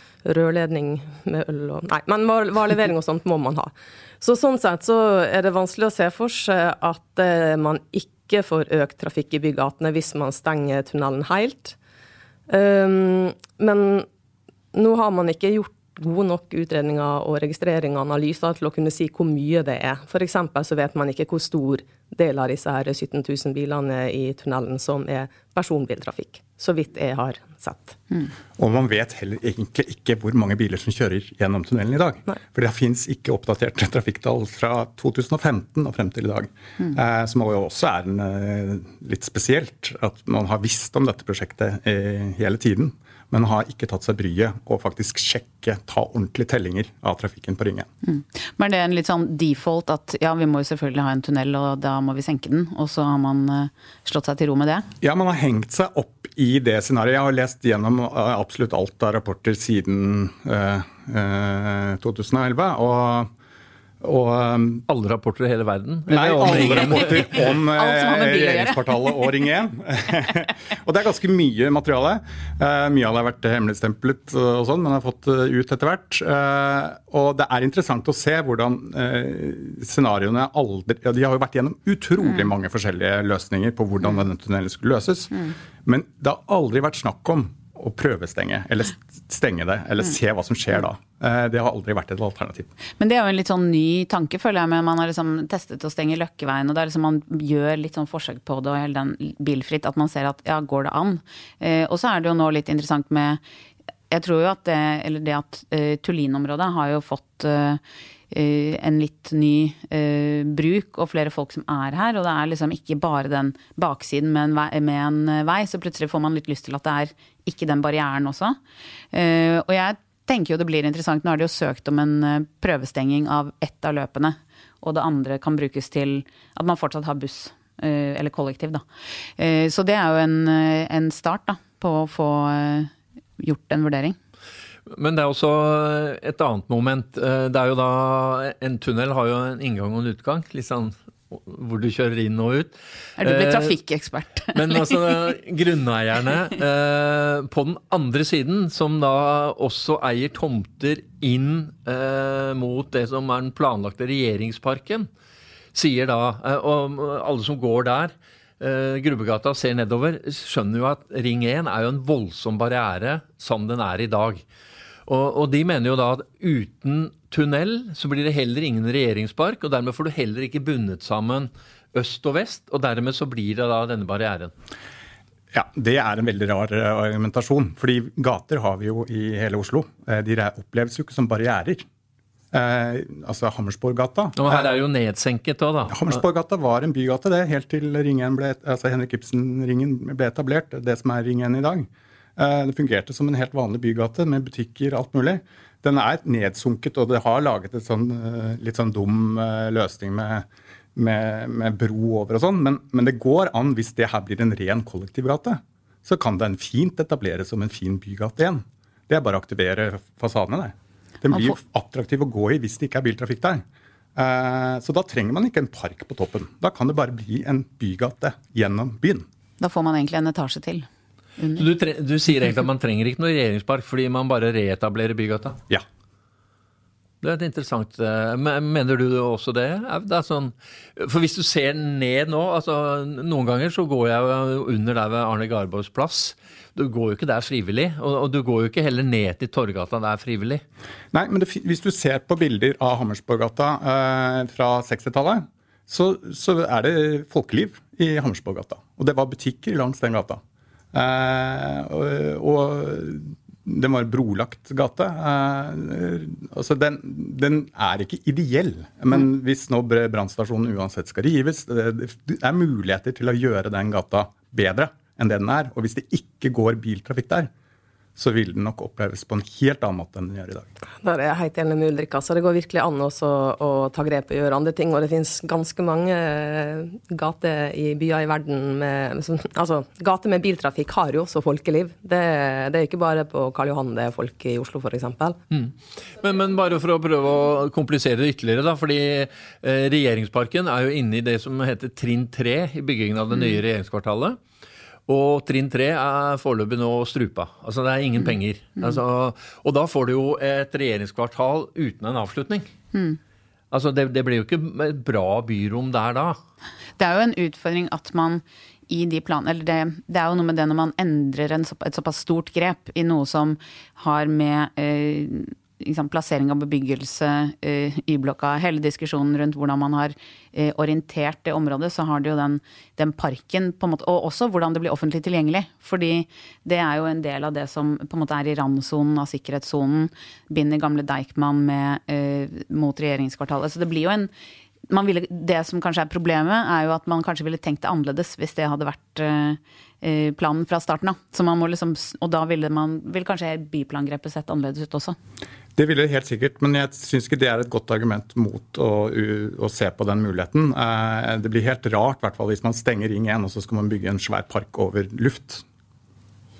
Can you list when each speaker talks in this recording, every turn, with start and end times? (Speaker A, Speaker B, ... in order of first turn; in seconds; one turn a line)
Speaker A: 0.2-11.8
Speaker A: 12.5-14.1
Speaker A: 14.7-28.1
Speaker B: 28.6-47.9
Speaker C: 48.0-54.9
Speaker B: 55.0-63.3
Speaker B: 64.0-64.8
Speaker D: 64.9-67.3
Speaker B: 66.1-92.7
Speaker C: 67.1-69.2
Speaker C: 93.0-103.4
Speaker C: 104.1-107.8
Speaker C: 108.3-118.6
Speaker C: 119.1-128.8
Speaker C: 129.4-134.2
Speaker D: 134.9-143.8
Speaker C: 143.2-145.0
Speaker D: 144.5-155.1
Speaker D: 155.7-164.4
Speaker D: 165.1-174.5
Speaker B: 175.5-181.8
Speaker B: 182.5-184.5
Speaker D: 184.3-186.1
Speaker B: 185.9-213.6
Speaker B: 214.2-219.2
Speaker C: 219.6-220.9
Speaker C: 221.4-221.7
Speaker D: 221.6-225.6
Speaker D: 227.2-240.6
Speaker B: 241.1-250.4
Speaker B: 250.9-267.5
Speaker B: 268.2-270.7
Speaker A: 271.0-285.4
Speaker D: 285.5-294.4
Speaker D: 295.1-302.6
Speaker C: 302.9-303.2
Speaker D: 303.7-306.4
Speaker C: 307.0-334.3
Speaker C: 334.9-345.1
Speaker B: 345.8-355.6